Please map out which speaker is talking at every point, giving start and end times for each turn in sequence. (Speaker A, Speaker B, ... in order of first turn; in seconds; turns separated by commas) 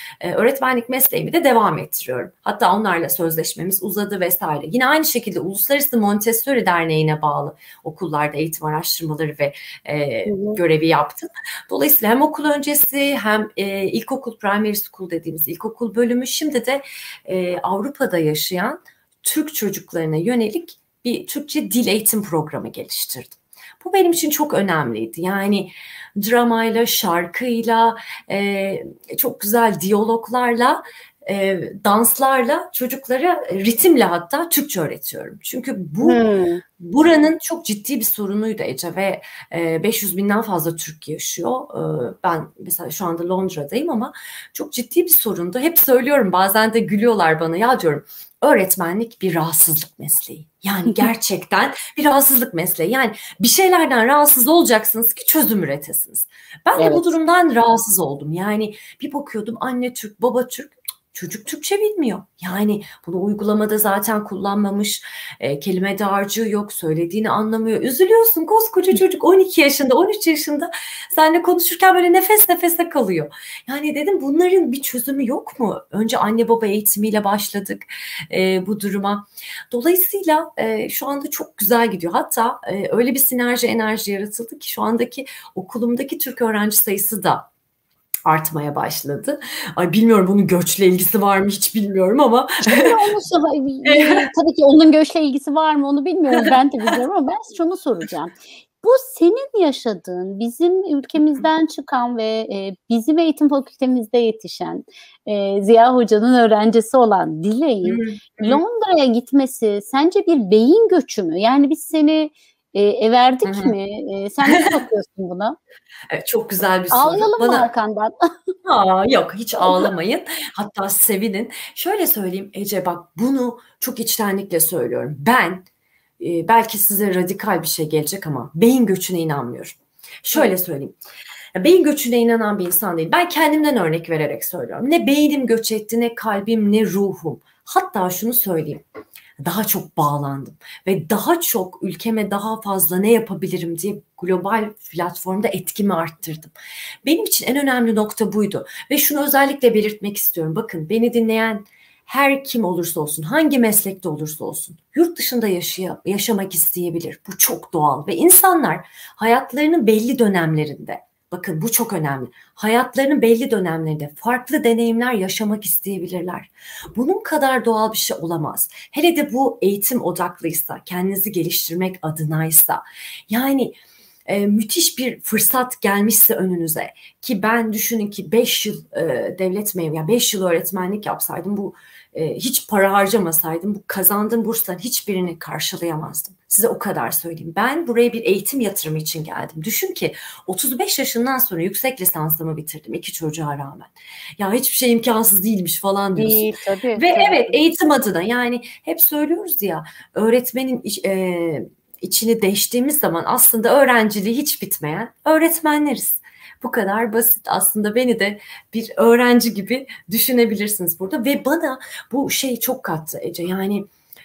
Speaker A: 0.2-36.2, Speaker B: 10.3-10.6, Speaker B: 36.0-36.6, Speaker A: 36.8-87.5, Speaker B: 56.8-57.1, Speaker A: 88.3-93.0, Speaker B: 92.7-115.6, Speaker A: 93.8-94.3, Speaker A: 107.8-108.6, Speaker A: 113.5-113.7, Speaker A: 114.5-114.8, Speaker A: 116.1-117.7, Speaker B: 116.9-118.1, Speaker A: 118.7-125.7, Speaker B: 119.6-119.9, Speaker A: 126.2-130.9, Speaker A: 131.6-138.8, Speaker A: 139.4-146.5, Speaker A: 147.1-213.9, Speaker B: 196.2-197.6